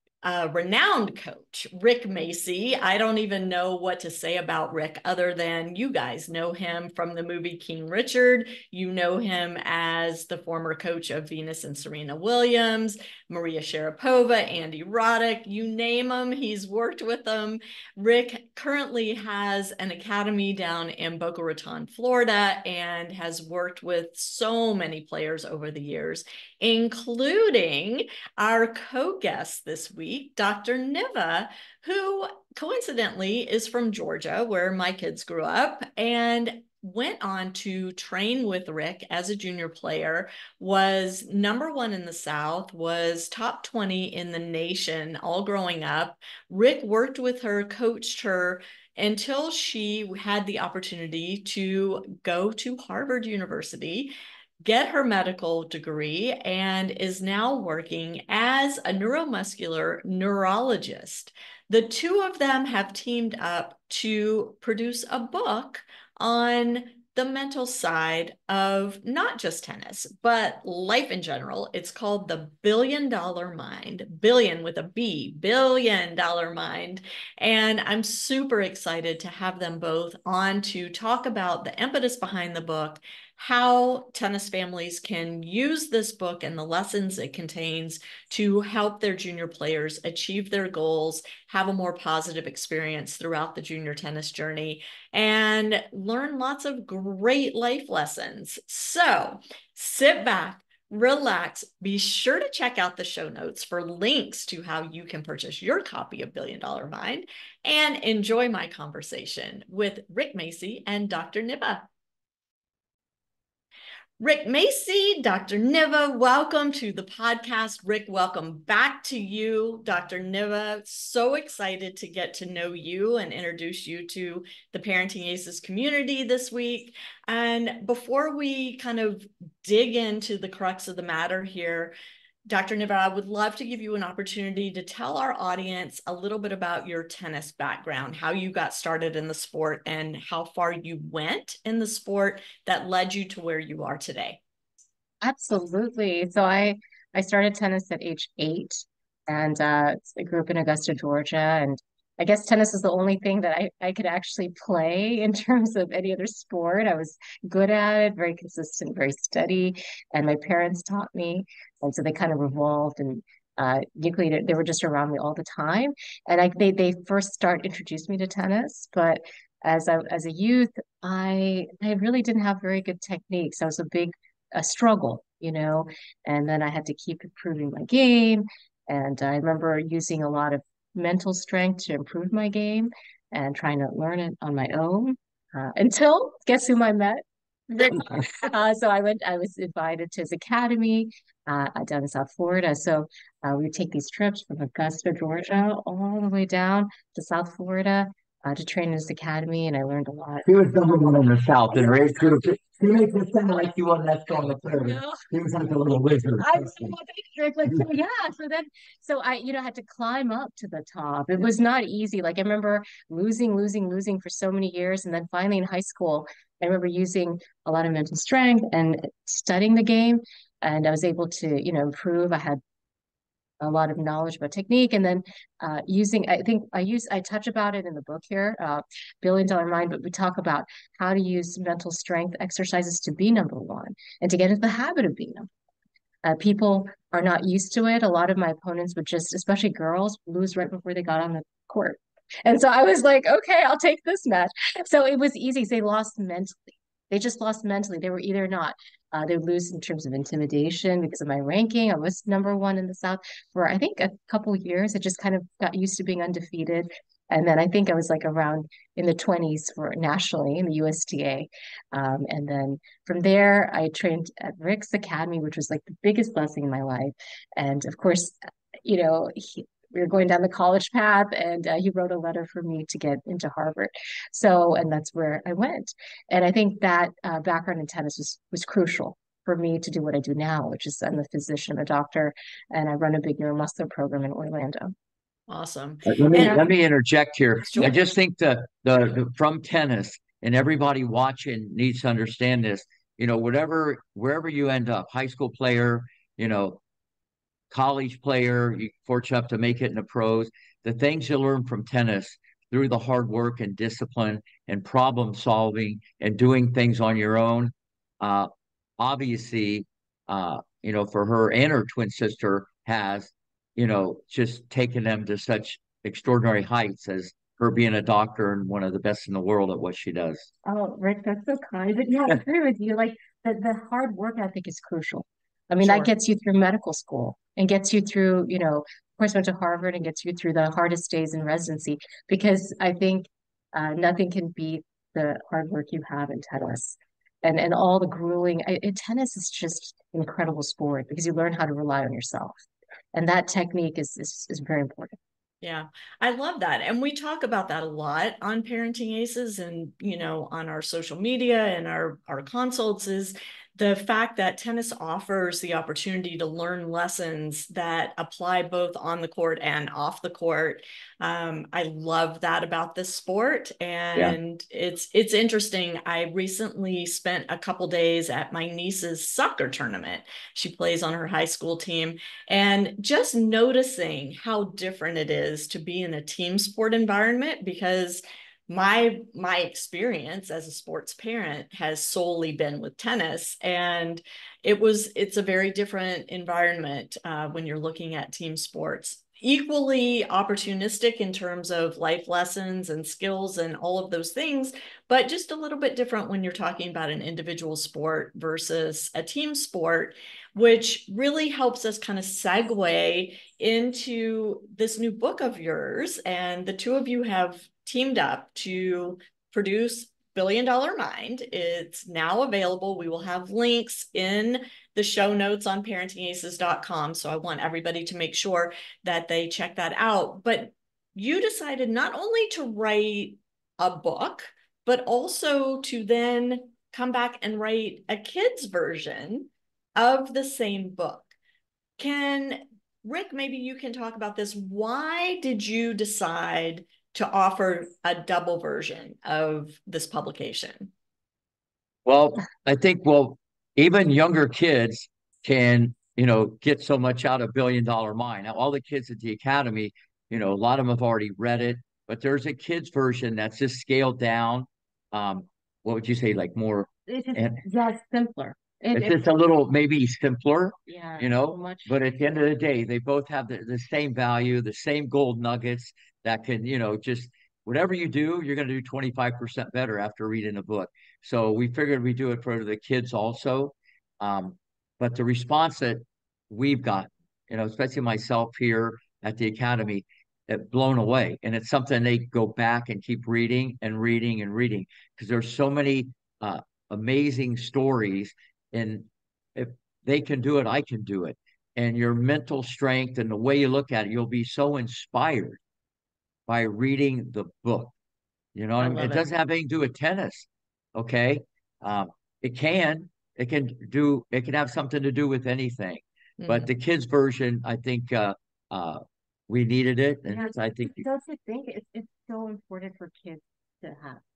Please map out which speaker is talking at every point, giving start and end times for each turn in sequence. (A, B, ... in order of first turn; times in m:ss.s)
0:00.2-1:51.9 A
1:54.2-2:12.0 A
2:12.5-2:24.4 A
2:25.2-3:20.5 B
3:20.4-3:26.9 C
3:21.8-3:22.1 B
3:24.9-3:25.2 B
3:26.4-3:42.6 B
3:43.6-3:55.5 B
3:56.2-4:44.9 B
4:45.5-4:46.6 A
4:46.1-4:56.8 C
4:46.4-4:46.6 B
4:57.7-5:20.5 C
5:20.6-5:42.6 B
5:25.8-5:26.1 A
5:43.1-5:45.2 B
5:45.6-7:11.3 A
7:12.0-7:20.9 A
7:22.1-7:37.6 C
7:37.1-7:39.2 B
7:38.9-8:15.6 C
7:40.9-7:42.0 B
8:16.5-8:17.9 C
8:18.6-8:31.1 C
8:18.8-8:19.2 A
8:26.4-8:26.7 A
8:30.3-8:34.2 B